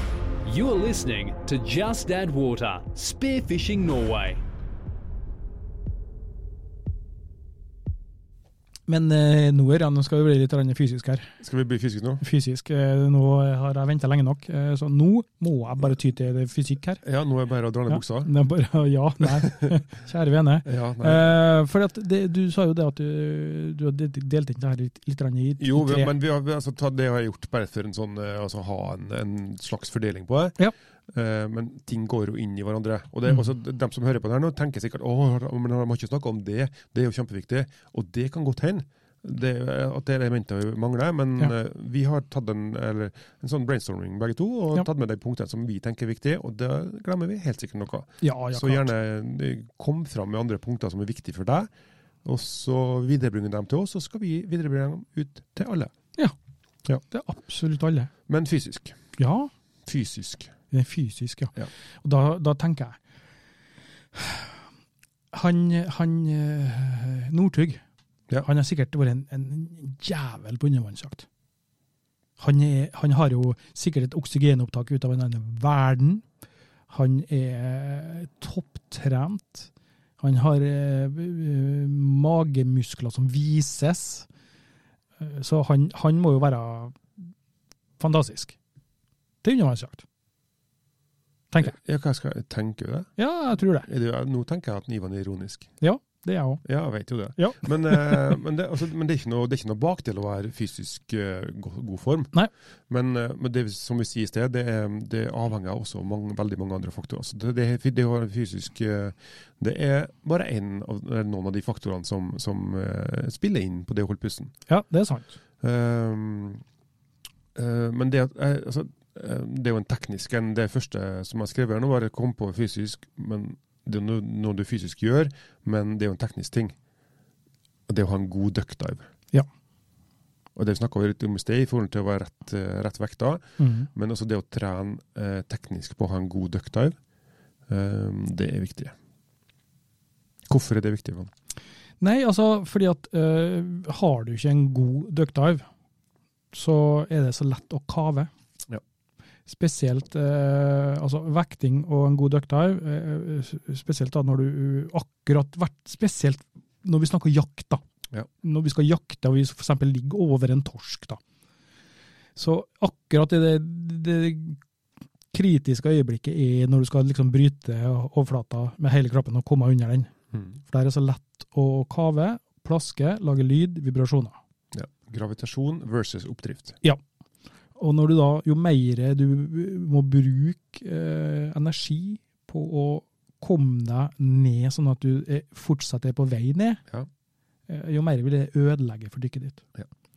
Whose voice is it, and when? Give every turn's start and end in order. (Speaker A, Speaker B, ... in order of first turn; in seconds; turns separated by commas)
Speaker A: 0.4-4.4, Speaker B: 8.9-11.3, Speaker C: 11.4-12.2, Speaker B: 12.2-17.0, Speaker C: 17.0-18.3, Speaker B: 17.9-26.1, Speaker C: 19.3-19.8, Speaker C: 20.6-21.2, Speaker C: 25.6-30.6, Speaker C: 31.1-51.7, Speaker B: 48.2-48.9, Speaker C: 52.2-55.9, Speaker B: 57.1-58.1, Speaker C: 58.3-59.0, Speaker B: 59.2-59.5, Speaker C: 59.9-60.5, Speaker B: 60.7-63.0, Speaker B: 64.1-64.5, Speaker B: 65.3-67.8, Speaker B: 68.4-71.2, Speaker B: 72.4-76.2, Speaker B: 76.9-79.7, Speaker B: 80.2-84.3, Speaker B: 85.2-87.0, Speaker B: 88.0-88.5, Speaker B: 89.4-90.0, Speaker C: 91.6-93.1, Speaker B: 93.2-93.9, Speaker C: 93.8-95.7, Speaker B: 95.8-96.6, Speaker C: 96.6-102.3, Speaker B: 97.3-98.2, Speaker C: 102.9-114.5, Speaker B: 114.7-115.3, Speaker C: 115.6-116.6, Speaker C: 117.5-126.7, Speaker C: 127.9-129.1, Speaker C: 130.6-136.9, Speaker B: 133.6-133.9, Speaker C: 137.7-138.9, Speaker C: 140.5-141.3, Speaker B: 142.0-145.7, Speaker B: 146.5-148.3, Speaker B: 149.5-157.8, Speaker B: 158.4-161.2, Speaker B: 162.3-164.6, Speaker B: 165.3-174.3, Speaker C: 174.7-176.8, Speaker B: 177.8-186.8, Speaker B: 187.7-189.6